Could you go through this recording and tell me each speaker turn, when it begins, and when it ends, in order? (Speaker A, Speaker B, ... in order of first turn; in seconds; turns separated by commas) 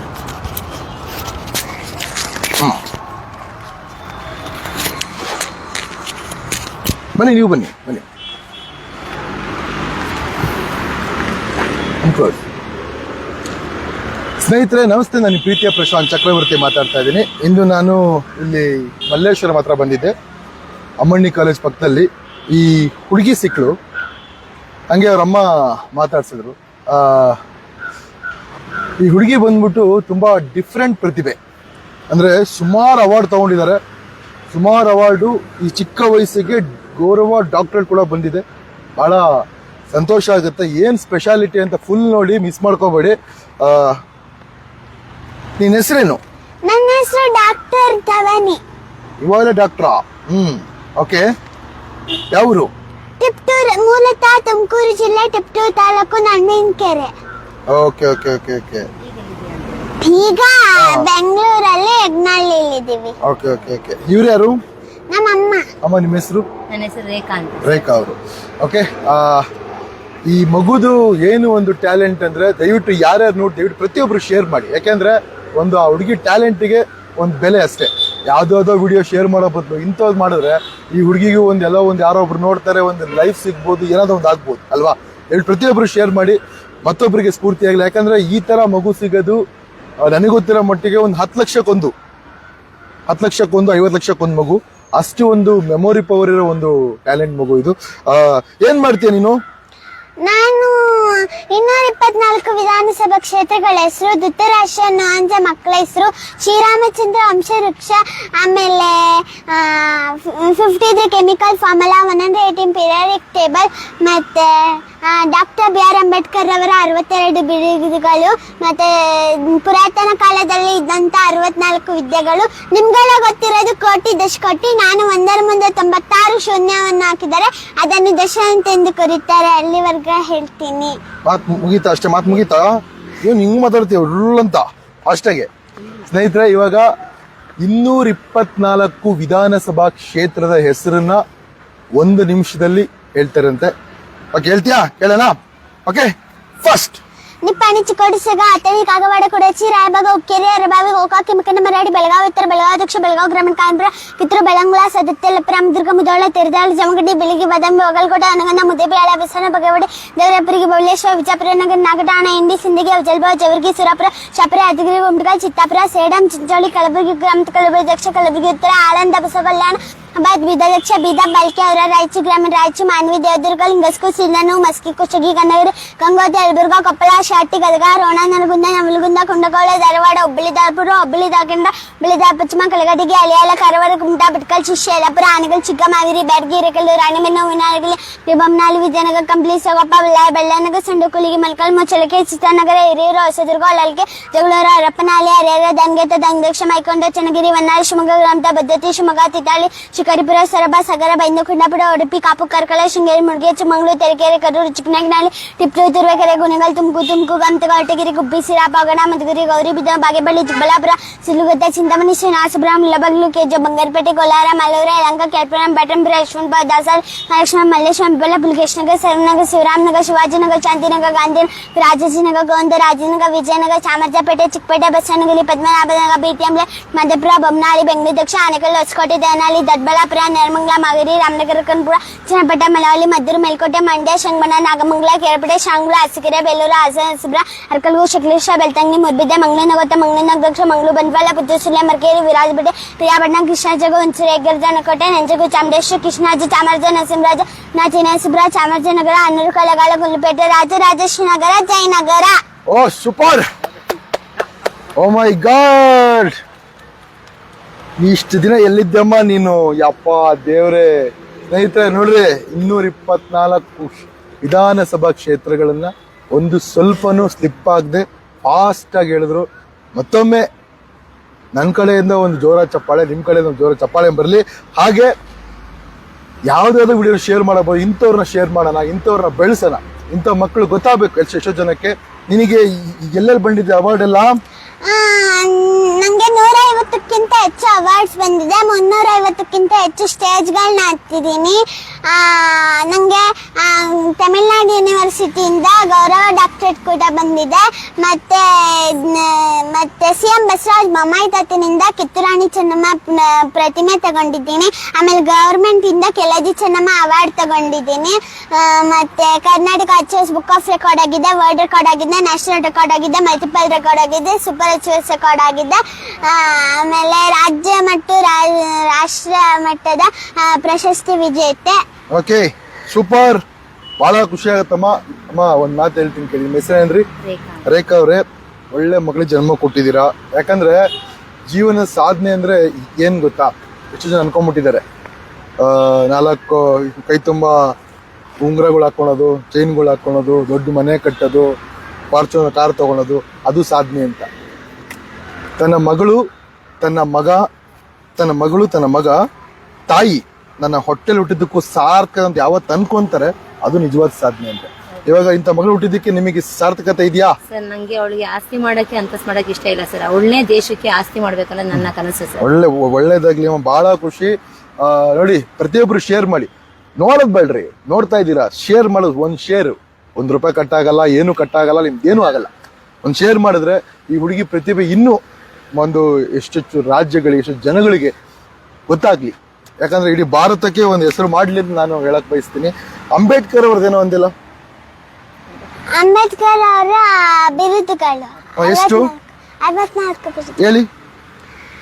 Speaker A: 7.2-8.0, Speaker A: 12.0-12.4, Speaker A: 14.4-20.1, Speaker A: 21.0-23.7, Speaker A: 24.9-27.4, Speaker A: 29.0-31.4, Speaker A: 32.1-33.8, Speaker A: 34.5-38.4, Speaker A: 39.0-39.2, Speaker A: 39.9-44.0, Speaker A: 45.6-46.2, Speaker B: 46.6-48.6, Speaker A: 49.2-51.3, Speaker A: 52.3-52.7, Speaker B: 53.2-57.1, Speaker A: 57.7-58.9, Speaker C: 59.0-60.0, Speaker B: 60.0-63.1, Speaker A: 60.7-61.1, Speaker A: 63.2-64.6, Speaker B: 65.1-65.7, Speaker A: 65.8-66.5, Speaker C: 66.7-68.0, Speaker A: 67.6-69.4, Speaker A: 70.2-89.4, Speaker A: 90.0-91.9, Speaker A: 93.1-99.4, Speaker B: 100.2-130.9, Speaker A: 131.2-135.5, Speaker A: 136.0-136.8, Speaker A: 137.6-141.2, Speaker A: 142.0-143.7, Speaker A: 144.3-145.3, Speaker A: 146.6-147.0, Speaker B: 147.4-252.4, Speaker A: 252.7-253.4, Speaker A: 254.9-256.4, Speaker A: 258.0-260.9, Speaker A: 261.5-270.4, Speaker A: 271.5-275.1, Speaker A: 276.4-284.4, Speaker B: 284.8-321.8, Speaker A: 322.1-323.4, Speaker A: 324.0-327.1, Speaker C: 327.2-327.7, Speaker A: 327.6-330.8, Speaker A: 331.5-334.8, Speaker A: 335.6-337.7, Speaker A: 338.4-341.5, Speaker A: 342.1-344.3, Speaker A: 345.6-346.2, Speaker A: 346.8-347.4, Speaker A: 348.1-349.2, Speaker A: 349.9-357.4, Speaker C: 357.5-362.4, Speaker A: 362.4-372.5, Speaker A: 373.0-375.2, Speaker A: 375.8-378.1, Speaker A: 378.9-384.3, Speaker B: 385.9-390.6, Speaker A: 388.6-389.1, Speaker A: 390.6-390.9